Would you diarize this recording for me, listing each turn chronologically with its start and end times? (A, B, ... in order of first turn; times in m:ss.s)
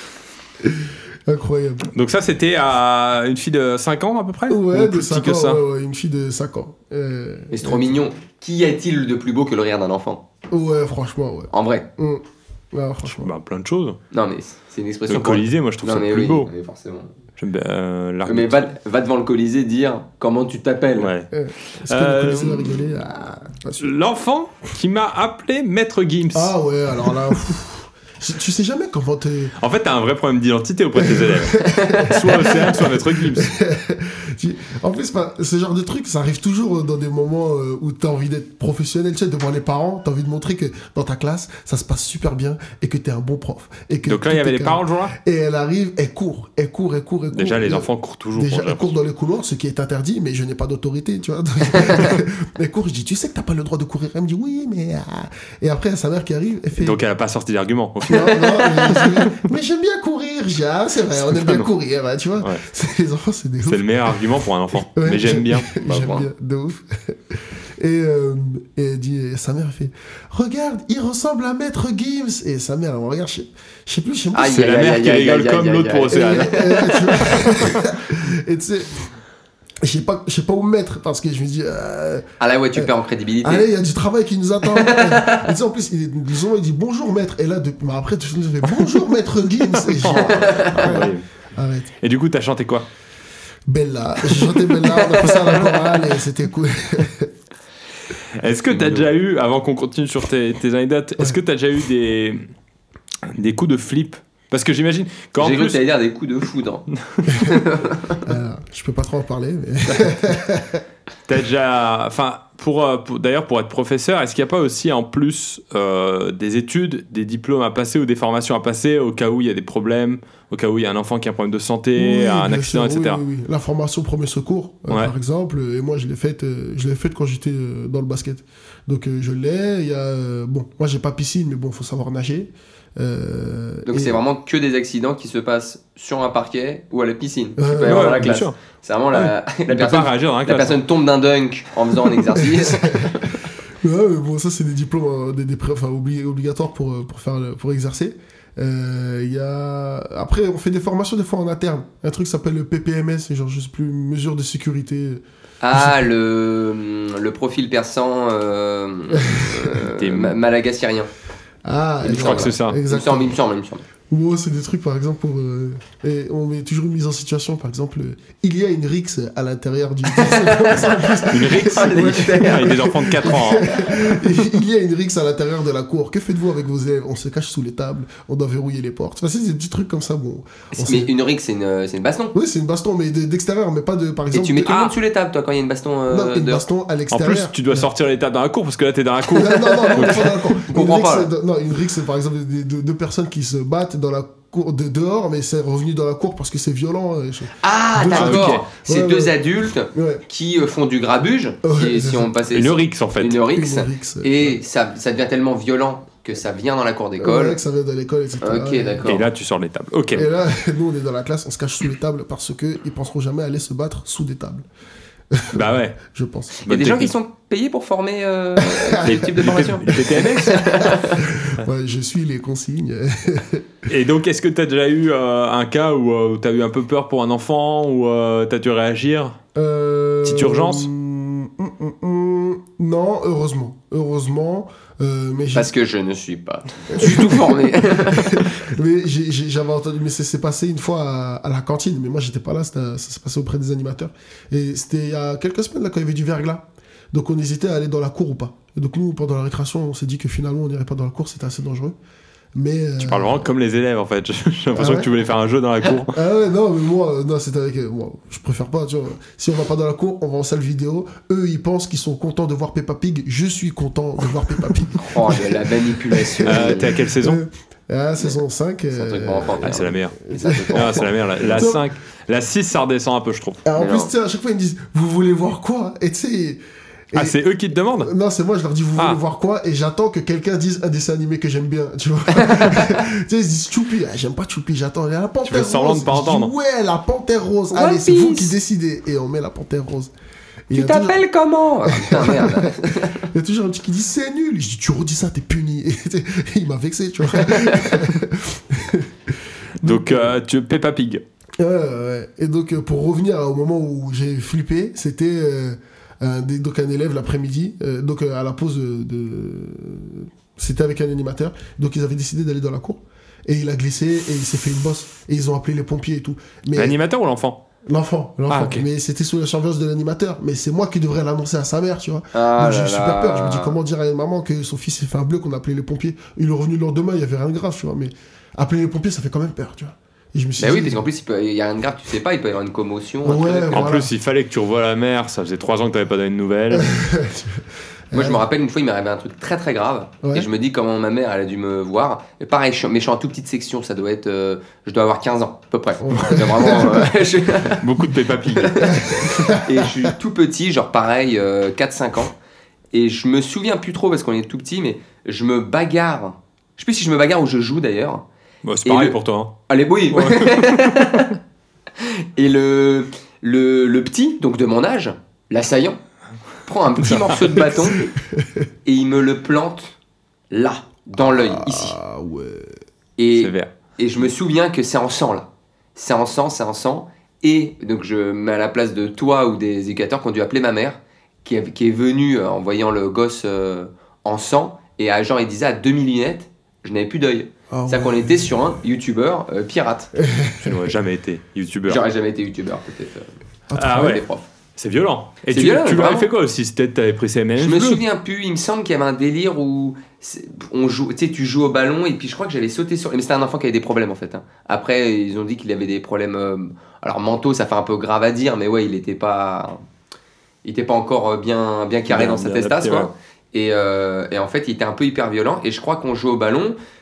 0:00.6-0:01.8 A
0:01.9-0:05.6 B
0:04.5-0:08.0 A
0:07.5-0:10.2 C
0:10.5-0:13.3 A
0:11.5-0:11.9 C
0:13.0-0:14.0 B
0:14.1-0:17.1 C
0:15.1-0:16.5 B
0:17.4-0:18.7 B
0:18.2-0:21.1 C
0:21.0-0:22.8 B
0:21.3-0:23.9 A
0:23.8-0:26.5 B
0:26.3-0:29.5 A
0:29.6-0:33.5 B
0:31.0-0:57.0 A
0:31.7-0:32.1 C
0:44.1-0:45.1 B
0:47.3-0:48.9 B
0:56.8-0:58.4 B
0:58.1-1:04.2 A
0:58.1-0:59.2 C
1:01.3-1:01.7 B
1:03.6-1:05.7 B
1:04.8-1:14.7 A
1:05.8-1:06.2 C
1:14.3-1:17.2 C
1:14.5-1:16.8 B
1:16.1-1:19.1 A
1:17.5-1:17.8 B
1:19.8-1:22.9 A
1:22.4-1:23.7 C
1:23.4-1:31.9 A
1:24.7-1:25.5 C
1:29.8-1:31.2 B
1:30.2-1:31.0 C
1:32.0-1:32.8 B
1:33.7-1:37.3 A
1:34.8-1:36.0 C
1:38.4-1:42.5 B
1:43.3-1:45.8 B
1:45.4-1:48.2 C
1:47.1-1:47.5 B
1:48.2-1:50.8 A
1:51.3-2:03.2 B
2:02.0-2:14.2 A
2:13.9-2:23.4 C
2:17.6-2:18.4 A
2:17.8-2:18.6 B
2:19.1-2:20.8 B
2:22.4-2:23.2 A
2:23.8-2:36.0 A
2:35.6-2:41.1 C
2:39.1-2:39.8 A
2:39.9-2:40.4 B
2:41.6-2:43.4 A
2:42.0-2:43.8 C
2:42.1-2:42.8 B
2:44.1-3:01.1 A
2:50.1-2:53.9 C
2:51.3-2:53.7 B
3:00.8-3:02.3 C
3:02.3-3:05.0 A
3:04.3-3:06.6 C
3:06.1-3:07.9 A
3:07.1-3:10.3 B
3:09.3-3:19.4 A
3:09.6-3:11.3 C
3:17.6-3:27.6 C
3:18.1-3:18.6 B
3:19.9-3:20.2 A
3:21.6-3:22.3 A
3:22.5-3:23.4 B
3:23.4-3:24.6 A
3:27.2-3:29.2 A
3:28.4-3:29.2 C
3:29.0-3:30.3 B
3:30.1-3:34.6 A
3:35.3-3:36.6 A
3:35.5-3:36.0 B
3:36.6-3:37.1 B
3:36.7-3:41.2 C
3:38.6-3:39.3 A
3:39.0-3:40.9 B
3:40.2-3:43.7 A
3:43.9-3:49.4 B
3:49.5-3:55.7 A
3:50.2-3:50.9 B
3:55.5-3:58.5 C
3:56.9-4:11.9 A
4:12.5-4:13.4 A
4:13.0-4:16.2 B
4:14.7-4:15.1 A
4:16.1-4:31.8 A
4:25.0-4:27.0 C
4:26.4-4:27.4 B
4:28.9-4:31.6 C
4:29.6-4:30.2 B
4:30.7-4:33.6 B
4:33.6-4:50.1 A
4:33.8-4:34.1 C
4:37.1-4:38.1 B
4:42.4-4:42.9 C
4:45.4-4:46.5 B
4:47.7-4:48.5 C
4:50.7-4:51.2 A
4:50.7-4:53.3 C
4:51.8-5:00.3 A
4:57.4-4:57.9 C
4:59.8-5:01.2 B
5:01.6-5:17.0 A
5:16.7-5:17.6 B
5:17.9-5:31.0 A
5:18.5-5:18.8 B
5:22.3-5:23.8 C
5:30.6-5:33.9 C
5:33.2-5:34.1 A
5:33.7-5:37.0 B
5:36.7-5:38.4 A
5:38.1-5:47.9 C
5:40.2-5:40.5 A
5:46.0-5:47.1 A
5:47.7-5:49.1 B
5:48.5-5:52.3 C
5:48.8-5:50.1 A
5:52.9-5:58.2 C
5:58.6-5:59.5 B
5:58.8-5:59.2 C
5:59.7-6:01.4 C
6:00.1-6:01.3 B
6:02.0-6:06.0 C
6:06.6-6:08.1 C
6:07.1-6:07.4 B
6:07.6-6:08.7 A
6:08.8-6:10.0 C
6:10.5-6:12.0 C
6:11.2-6:12.7 A
6:13.2-6:30.1 C
6:13.3-6:13.7 B
6:27.7-6:28.6 A
6:30.2-6:30.8 A
6:30.6-6:32.0 B
6:31.9-6:33.3 C
6:33.7-6:34.2 A
6:33.7-6:34.2 B
6:33.8-6:34.5 C
6:34.8-6:38.0 B
6:35.5-6:36.3 C
6:37.6-6:49.8 C
6:50.6-6:56.8 C
6:52.1-6:53.1 B